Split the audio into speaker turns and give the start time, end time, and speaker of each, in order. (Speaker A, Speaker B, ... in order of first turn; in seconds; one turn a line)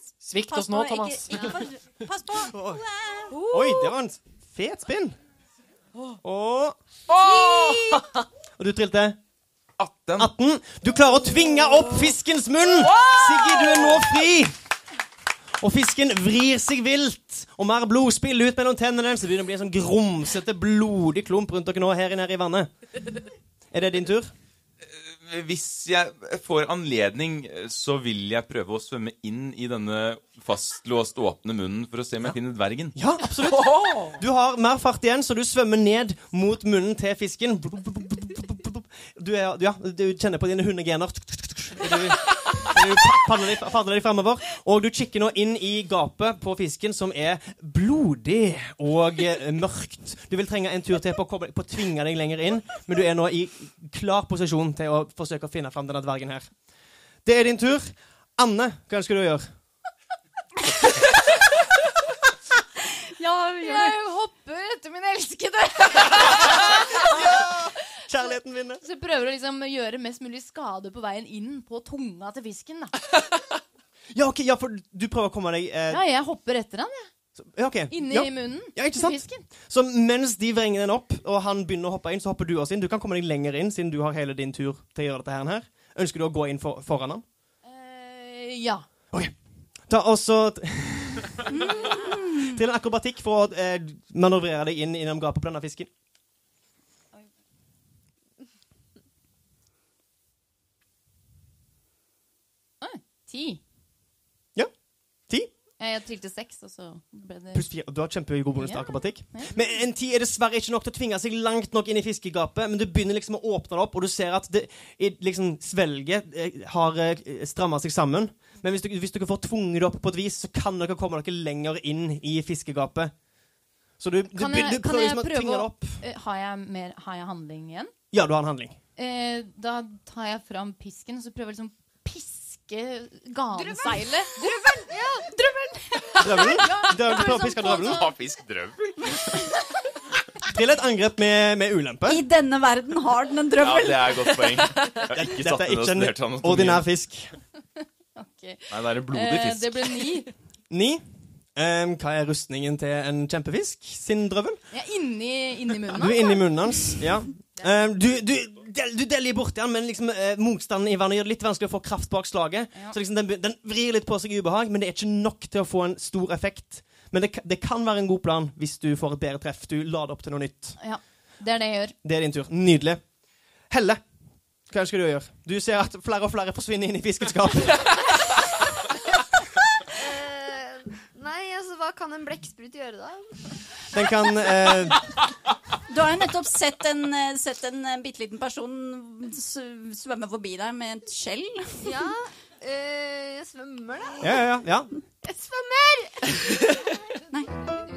Speaker A: 0.2-1.6
Speaker B: 0.5-3.6
Speaker C: 2.5-2.8
Speaker C: 3.4-5.2
Speaker C: 6.2-6.8
Speaker A: 7.1-8.1
Speaker D: 7.3-7.9
Speaker C: 8.6-9.2
Speaker D: 9.8-10.3
Speaker C: 10.2-14.5
Speaker A: 12.8-14.0
Speaker C: 15.6-22.7
Speaker C: 23.7-24.3
Speaker D: 24.8-33.0
Speaker C: 32.9-56.5
Speaker A: 33.4-34.2
Speaker C: 57.2-59.4
Speaker B: 63.1-63.9
Speaker E: 63.6-67.5
Speaker C: 66.5-68.8
Speaker E: 68.8-73.0
Speaker C: 74.1-76.0
Speaker E: 75.9-77.1
Speaker C: 77.4-87.2
Speaker E: 77.9-79.4
Speaker E: 87.6-88.8
Speaker C: 89.9-95.9
Speaker B: 91.5-92.5
Speaker E: 102.8-103.6
Speaker E: 105.8-107.7
Speaker C: 107.5-123.1
Speaker E: 108.5-109.7
Speaker C: 124.0-126.0
Speaker E: 124.3-127.9
Speaker C: 128.1-128.8
Speaker E: 129.0-138.1
Speaker F: 133.5-136.2
Speaker C: 136.2-138.1
Speaker D: 137.8-139.5
Speaker C: 140.5-142.2
Speaker B: 142.0-144.7
Speaker D: 143.6-146.9
Speaker C: 145.1-147.3
Speaker E: 148.2-150.3
Speaker D: 148.7-150.2
Speaker C: 150.7-151.0
Speaker C: 151.5-154.6
Speaker E: 154.7-157.0
Speaker C: 155.9-170.8
Speaker E: 170.8-171.9
Speaker C: 172.0-173.0
Speaker C: 173.7-174.0
Speaker C: 174.7-178.0
Speaker F: 179.9-184.5
Speaker C: 183.9-185.0
Speaker B: 185.9-191.9
Speaker F: 191.8-194.5
Speaker C: 194.2-194.9
Speaker F: 195.2-196.7